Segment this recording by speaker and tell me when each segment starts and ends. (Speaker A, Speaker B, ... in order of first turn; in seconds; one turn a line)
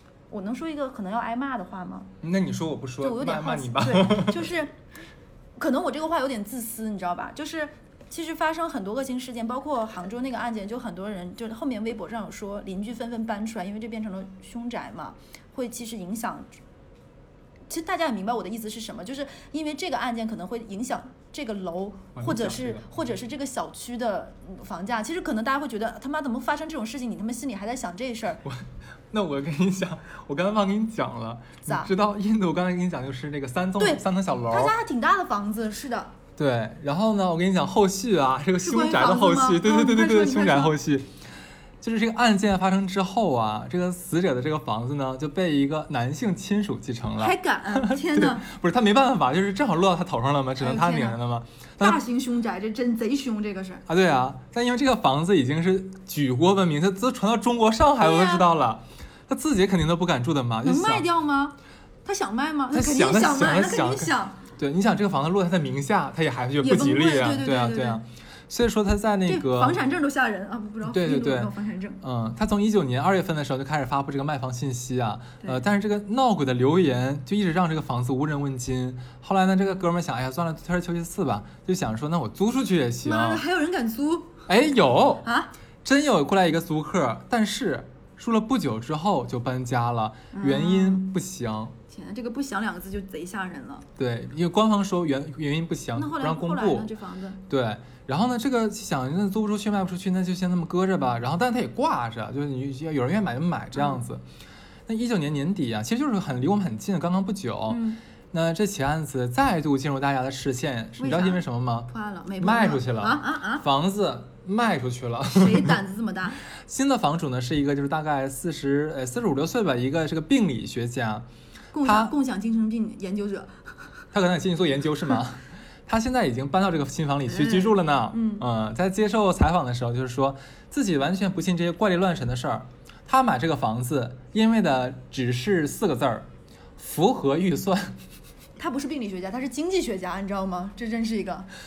Speaker A: 0.3-2.1
Speaker B: 2.2-4.5
Speaker A: 3.0-4.7
Speaker A: 5.6-16.6
Speaker A: 17.7-28.4
Speaker B: 22.2-22.9
Speaker B: 28.4-34.7
Speaker A: 31.7-31.9
Speaker A: 33.8-36.1
Speaker B: 36.4-41.1
Speaker A: 38.6-40.8
Speaker B: 41.8-52.0
Speaker A: 47.2-48.5
Speaker A: 50.6-51.2
Speaker A: 51.8-53.9
Speaker B: 53.9-61.1
Speaker A: 58.0-58.5
Speaker A: 60.6-64.4
Speaker B: 62.7-69.8
Speaker A: 66.6-68.0
Speaker A: 69.3-72.0
Speaker B: 70.8-83.4
Speaker A: 83.0-84.4
Speaker B: 84.5-85.3
Speaker A: 85.2-85.5
Speaker B: 85.8-91.8
Speaker A: 90.3-91.1
Speaker A: 91.9-93.9
Speaker B: 94.0-96.9
Speaker A: 95.9-97.4
Speaker B: 97.5-104.2
Speaker B: 104.9-115.8
Speaker A: 107.7-108.0
Speaker A: 111.0-113.7
Speaker A: 115.3-116.4
Speaker B: 116.4-121.3
Speaker A: 121.7-123.9
Speaker B: 121.8-122.2
Speaker B: 124.1-138.0
Speaker A: 127.3-128.4
Speaker A: 138.6-141.5